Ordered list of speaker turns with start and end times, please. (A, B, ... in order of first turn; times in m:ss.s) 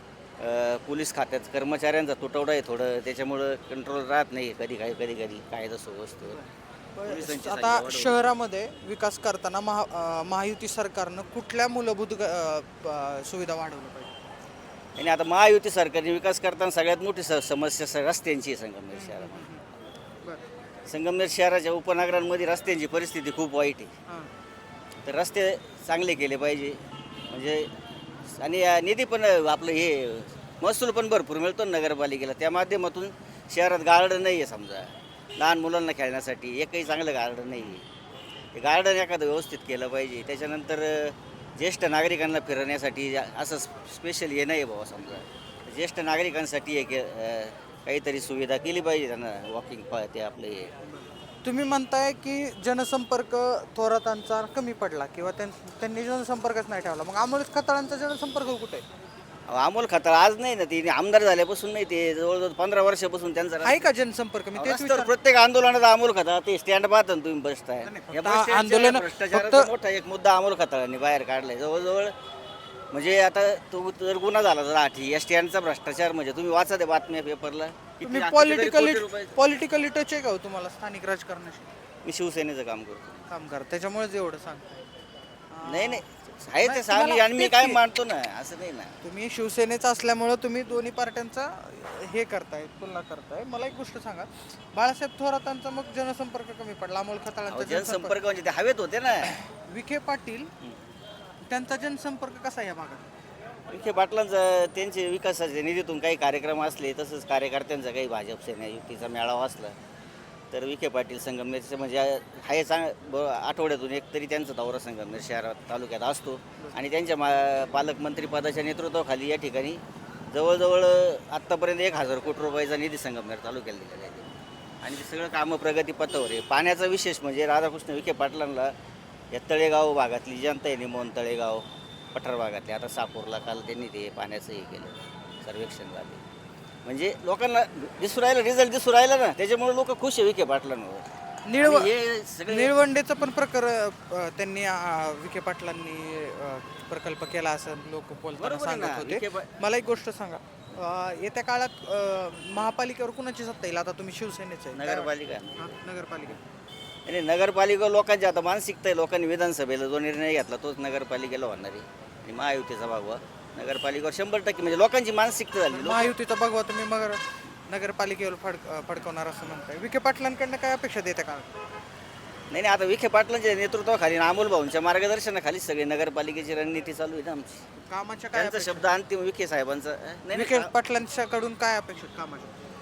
0:00.4-0:06.4 A
0:06.3-0:14.2 B
0:07.0-0:08.3 A
0:15.0-0:19.5 A
0:18.9-0:19.6 B
0:20.9-0:23.9 A
0:25.0-0:27.7 A
0:28.4-0:37.9 A
0:38.6-0:50.8 A
0:50.9-0:58.8 B
0:59.5-1:03.9 A
1:03.6-1:05.1 B
1:04.6-1:12.1 A
1:07.8-1:09.7 B
1:12.9-1:19.4 A
1:18.0-1:21.7 B
1:22.0-1:23.3 A
1:23.3-1:24.8 B
1:25.5-1:26.0 B
1:25.6-1:29.0 A
1:26.6-1:27.8 B
1:29.0-1:38.2 B
1:37.5-1:39.4 A
1:39.7-1:40.5 B
1:41.5-1:43.1 B
1:43.7-1:49.8 A
1:50.5-2:04.3 A
2:04.8-2:08.7 A
2:09.3-2:11.6 A
2:12.2-2:16.2 A
2:16.9-2:21.0 A
2:21.5-2:21.9 B
2:21.6-2:22.8 A
2:22.5-2:36.4 B
2:28.4-2:29.5 A
2:34.7-2:35.8 A
2:37.1-2:46.2 A
2:45.7-2:51.6 B
2:52.5-2:57.6 A
2:57.8-2:58.9 B
2:58.3-3:00.7 A
3:00.3-3:02.6 B